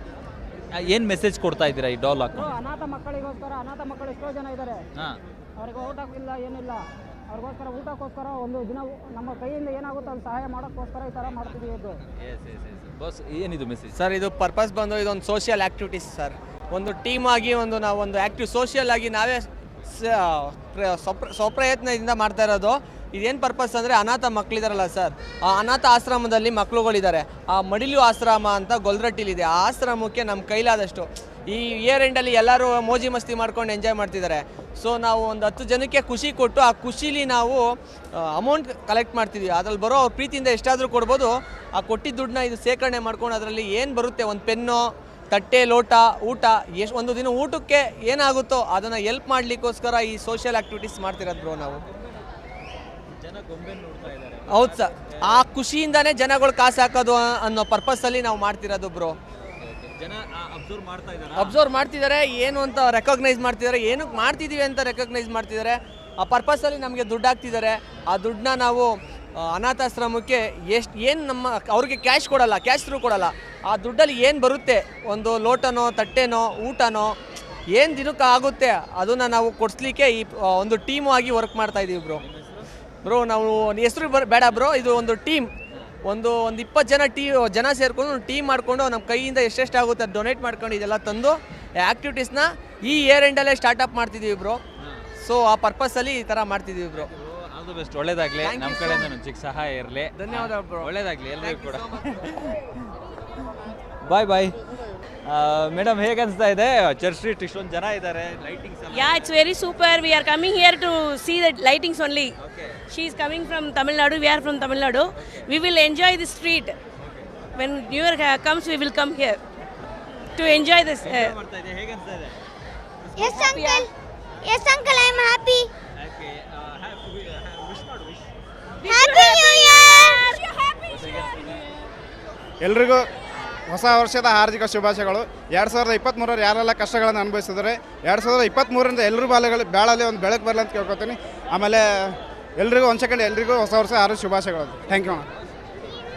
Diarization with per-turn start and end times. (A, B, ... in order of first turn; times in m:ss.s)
0:00.7-0:02.5 A
0:02.3-0:04.8 B
0:05.6-0:12.0 B
0:12.1-0:14.0 A
0:13.9-0:37.6 C
0:38.1-0:51.8 C
0:51.4-0:52.2 A
0:53.2-0:55.4 A
0:54.5-0:59.2 C
0:59.5-1:01.5 A
1:01.3-1:17.1 C
1:17.7-1:22.2 C
1:22.2-1:22.7 A
1:23.0-1:25.5 C
1:26.0-1:34.6 C
1:34.8-1:35.1 A
1:35.2-1:37.1 C
1:37.0-1:42.7 A
1:38.4-1:39.1 C
1:40.2-1:42.2 C
1:44.0-1:44.6 A
1:45.2-1:49.4 A
1:48.9-1:52.3 D
1:52.4-1:52.8 A
1:52.9-1:56.7 D
1:55.2-1:55.5 A
1:57.0-1:57.3 A
1:57.5-1:59.4 D
2:00.3-2:01.3 D
2:00.5-2:02.4 A
2:03.2-2:03.8 E
2:03.2-2:03.9 D
2:04.5-2:05.7 E
2:06.0-2:08.3 A
2:08.8-2:10.8 D
2:08.9-2:10.1 E
2:10.8-2:11.6 A
2:12.6-2:13.1 F
2:13.7-2:25.3 F